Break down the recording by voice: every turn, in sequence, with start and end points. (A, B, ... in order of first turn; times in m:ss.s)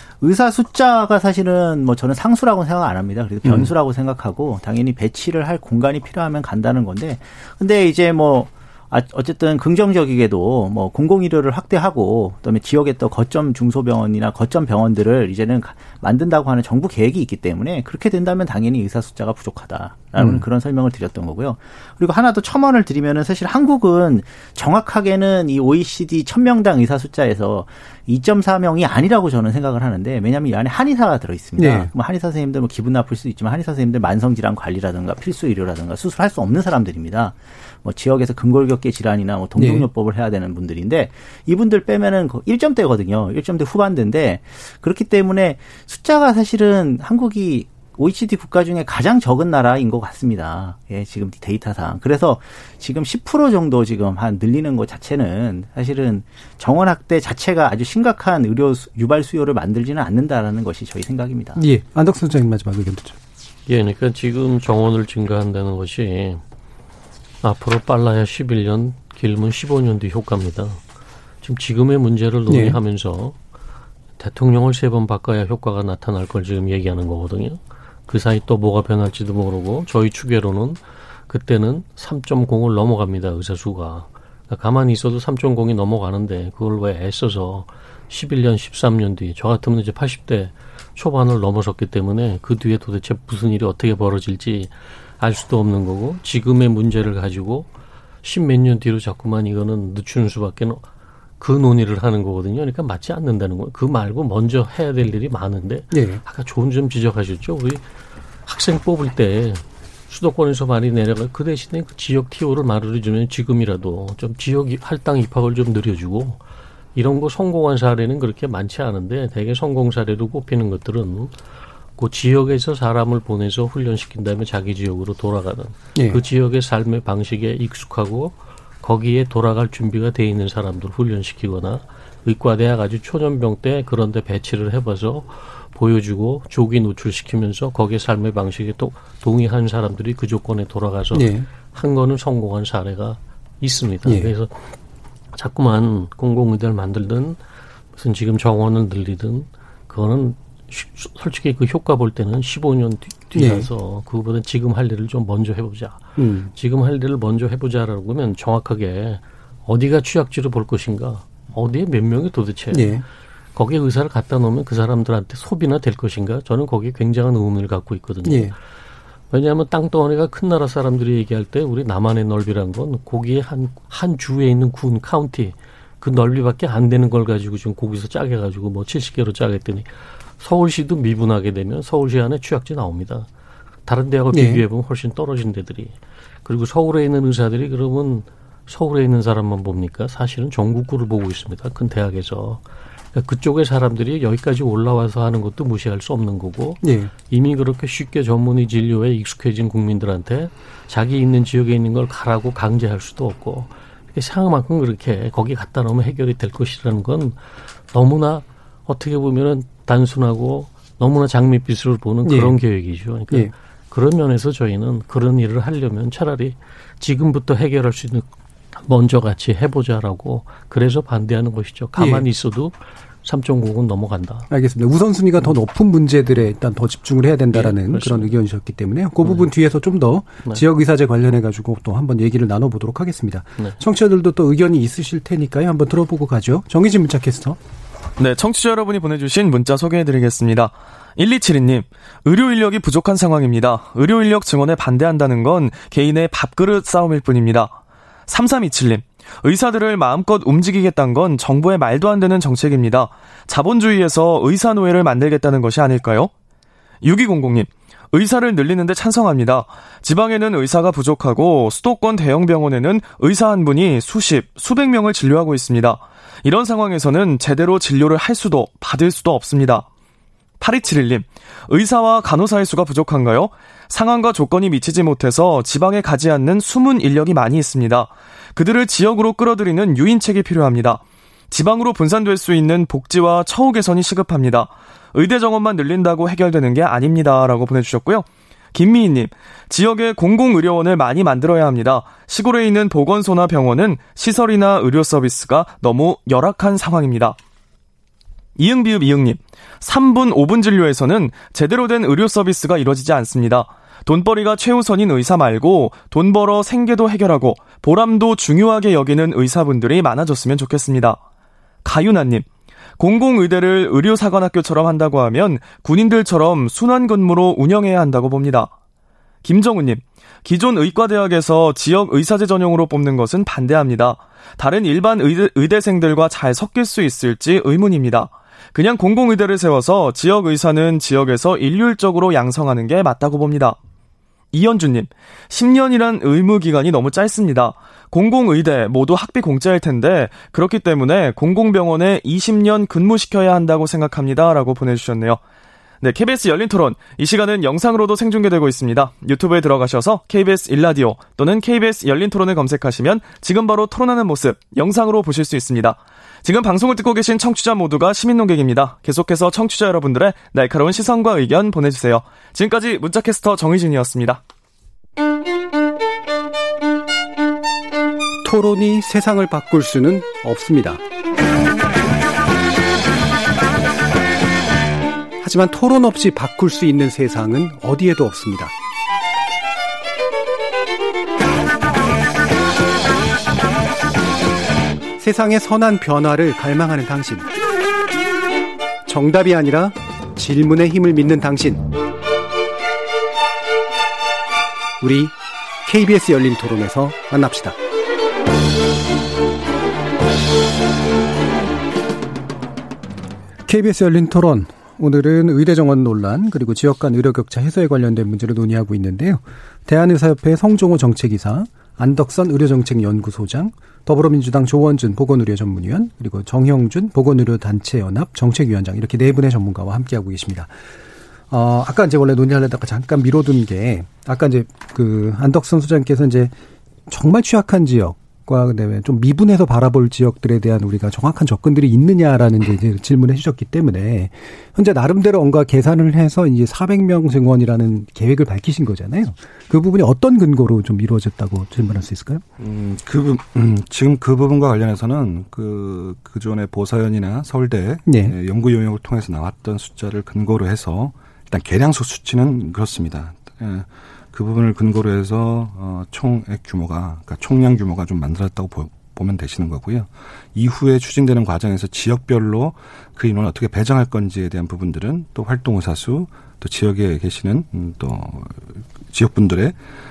0:00.2-1:01.6 A
0:03.4-0:03.7 B
0:20.2-0:20.4 B
0:31.6-0:31.9 B
0:39.6-0:39.9 B
1:01.6-1:03.2 B
1:03.7-1:06.4 C
1:07.4-1:10.8 C
1:11.4-1:13.4 C
1:12.5-1:12.8 B
1:14.2-1:37.7 C
1:38.2-1:40.8 C
1:41.4-1:47.8 C
1:45.9-1:46.2 B
1:48.5-1:56.4 C
1:57.0-2:01.4 C
2:02.0-2:24.6 C
2:06.0-2:06.2 B
2:21.1-2:21.5 B
2:24.0-2:24.3 B
2:25.3-2:27.4 C
2:28.0-2:43.0 C
2:33.4-2:33.7 B
2:36.2-2:36.5 B
2:42.7-2:43.0 B
2:43.6-2:48.6 C
2:48.2-2:48.5 B
2:49.3-3:03.3 C
3:03.9-3:12.6 C
3:04.3-3:04.6 B
3:13.1-3:27.4 C
3:16.8-3:17.1 B
3:27.9-3:44.5 C
3:32.3-3:32.6 B
3:42.0-3:42.3 B
3:44.5-3:57.6 B
3:47.5-3:48.4 C
3:49.2-3:49.5 C
3:58.2-4:16.3 D
4:17.0-4:29.9 D
4:30.6-4:57.4 D
4:58.6-5:11.2 D
5:11.8-5:12.5 D
5:13.0-5:18.7 D
5:19.4-5:33.8 D
5:34.5-5:45.4 D
5:46.0-6:04.4 D
6:08.4-6:11.0 B
6:15.4-6:18.7 B
6:25.2-6:27.5 B
6:29.1-6:31.8 B
6:35.0-6:37.8 B
6:43.7-7:00.7 B
7:01.5-7:06.5 B
7:07.1-7:22.4 B
7:22.6-7:49.8 E
7:28.1-7:28.4 B